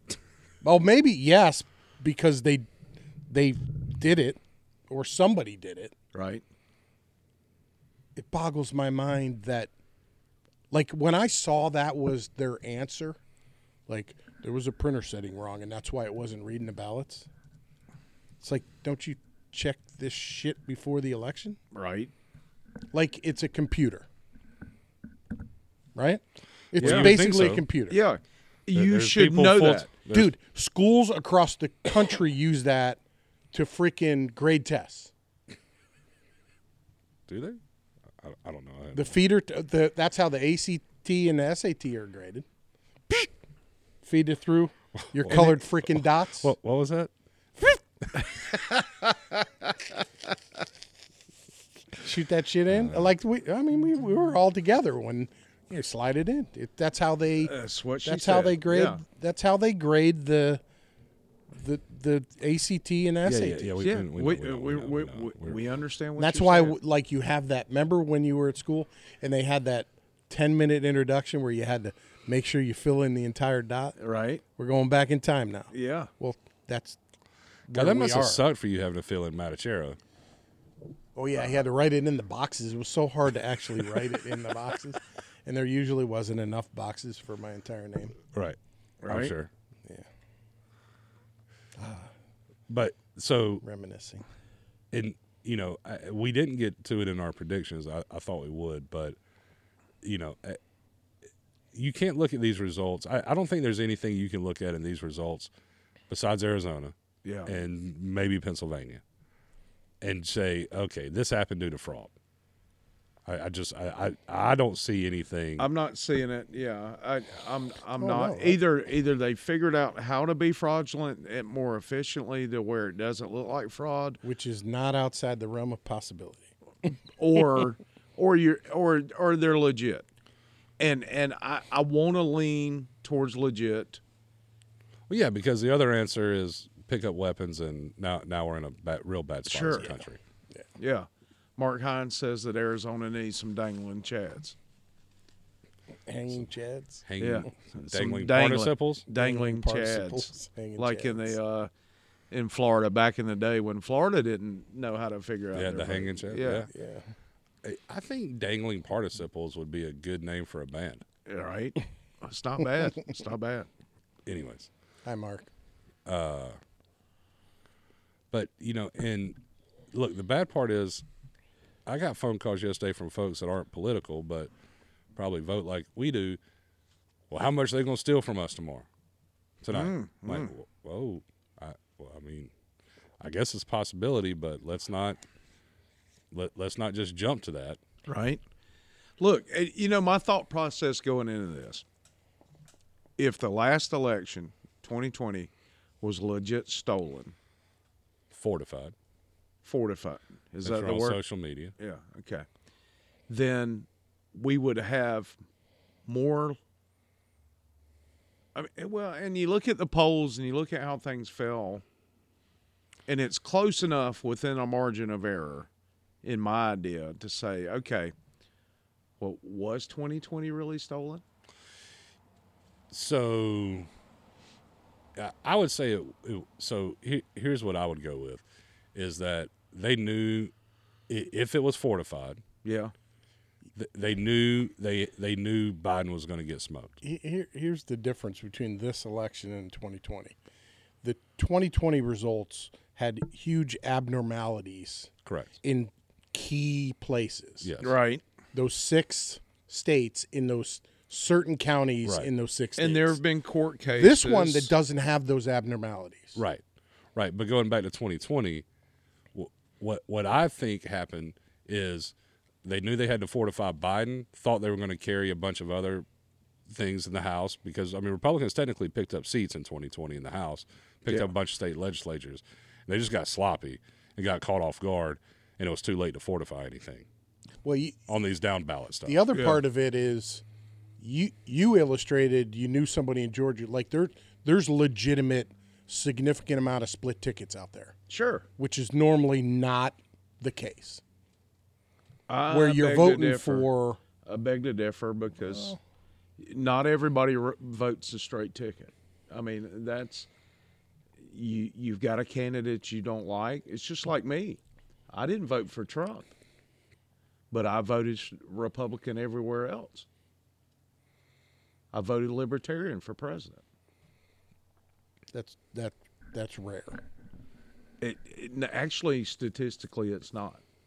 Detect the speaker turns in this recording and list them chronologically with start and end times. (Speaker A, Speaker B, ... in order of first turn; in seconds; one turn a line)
Speaker A: 0.6-2.7
Speaker A: 3.3-5.9
Speaker B: 6.1-6.4
Speaker A: 8.2-9.7
Speaker A: 10.7-13.2
Speaker A: 13.9-17.3
Speaker A: 18.4-21.6
Speaker B: 21.7-22.1
Speaker A: 22.9-24.1
Speaker A: 25.9-28.0
Speaker C: 26.8-27.6
Speaker B: 26.8-27.2
Speaker B: 27.9-29.9
Speaker C: 28.7-30.3
Speaker A: 30.1-33.0
Speaker A: 33.5-35.1
Speaker C: 37.3-37.6
Speaker C: 38.2-39.1
Speaker A: 38.9-42.5
Speaker A: 44.0-46.5
Speaker C: 45.0-48.2
Speaker B: 48.3-49.2
Speaker A: 52.0-60.6
Speaker C: 52.7-53.1
Speaker B: 57.4-59.0
Speaker A: 61.5-63.7
Speaker C: 63.2-65.6
Speaker B: 63.8-66.8
Speaker A: 66.2-74.0
Speaker B: 74.0-74.4
Speaker A: 74.6-77.0
Speaker B: 75.7-76.1
Speaker A: 77.7-78.4
Speaker C: 77.7-80.0
Speaker A: 81.2-88.2
Speaker C: 88.3-89.5
Speaker B: 89.0-89.3
Speaker A: 91.8-92.1
Speaker C: 92.7-93.6
Speaker A: 93.6-94.2
Speaker C: 94.9-99.2
Speaker C: 100.0-100.6
Speaker C: 101.7-105.5
Speaker C: 106.1-109.0
Speaker B: 107.2-107.5
Speaker C: 110.0-112.1
Speaker C: 113.3-115.7
Speaker B: 115.6-124.2
Speaker A: 118.0-118.6
Speaker A: 124.2-126.5
Speaker B: 127.2-130.1
Speaker B: 130.8-134.0
Speaker C: 135.1-140.2
Speaker B: 139.5-139.9
Speaker B: 140.8-144.6
Speaker A: 146.1-147.1
Speaker C: 147.1-149.1
Speaker B: 147.2-151.7
Speaker A: 149.1-151.4
Speaker B: 152.3-156.7
Speaker C: 155.5-156.7
Speaker A: 156.7-157.1
Speaker C: 157.6-161.0
Speaker B: 161.3-163.7
Speaker C: 164.2-164.7
Speaker A: 165.1-165.5
Speaker C: 166.1-166.6
Speaker C: 168.3-169.4
Speaker C: 169.9-171.0
Speaker C: 171.9-174.5
Speaker C: 175.2-176.4
Speaker C: 177.3-178.9
Speaker C: 179.6-182.5
Speaker B: 179.7-180.5
Speaker C: 183.2-185.2
Speaker C: 186.3-187.8
Speaker B: 188.1-188.4
Speaker B: 189.2-191.8
Speaker B: 193.2-195.5
Speaker B: 196.0-197.3
Speaker C: 198.3-198.9
Speaker B: 199.6-201.2
Speaker C: 200.6-201.7
Speaker B: 201.8-202.5
Speaker B: 203.3-205.4
Speaker B: 206.1-206.6
Speaker B: 208.6-211.8
Speaker B: 213.1-215.7
Speaker B: 216.2-218.1
Speaker B: 219.2-221.2
Speaker C: 222.9-223.9
Speaker C: 225.2-228.4
Speaker C: 228.9-230.5
Speaker C: 231.1-232.4
Speaker B: 232.6-232.9
Speaker C: 233.8-237.0
Speaker A: 237.0-240.4
Speaker A: 241.0-245.1
Speaker C: 245.2-245.5
Speaker A: 245.6-247.7
Speaker C: 247.6-247.9
Speaker B: 247.8-248.2
Speaker A: 248.5-253.2
Speaker B: 252.8-254.7
Speaker A: 254.0-256.4
Speaker C: 256.4-256.6
Speaker C: 257.1-258.6
Speaker C: 259.3-266.1
Speaker C: 266.7-277.1
Speaker A: 277.6-278.0
Speaker C: 278.1-279.2
Speaker A: 279.1-280.4
Speaker B: 279.3-279.6
Speaker A: 281.0-287.9
Speaker B: 288.1-288.5
Speaker A: 288.6-291.0
Speaker B: 292.3-293.7
Speaker A: 292.5-294.0
Speaker B: 294.2-295.8
Speaker A: 295.5-295.8
Speaker B: 296.4-300.3
Speaker B: 301.2-304.6
Speaker B: 305.1-306.3
Speaker B: 307.5-310.1
Speaker B: 311.9-313.6
Speaker A: 315.3-317.0
Speaker B: 318.0-320.6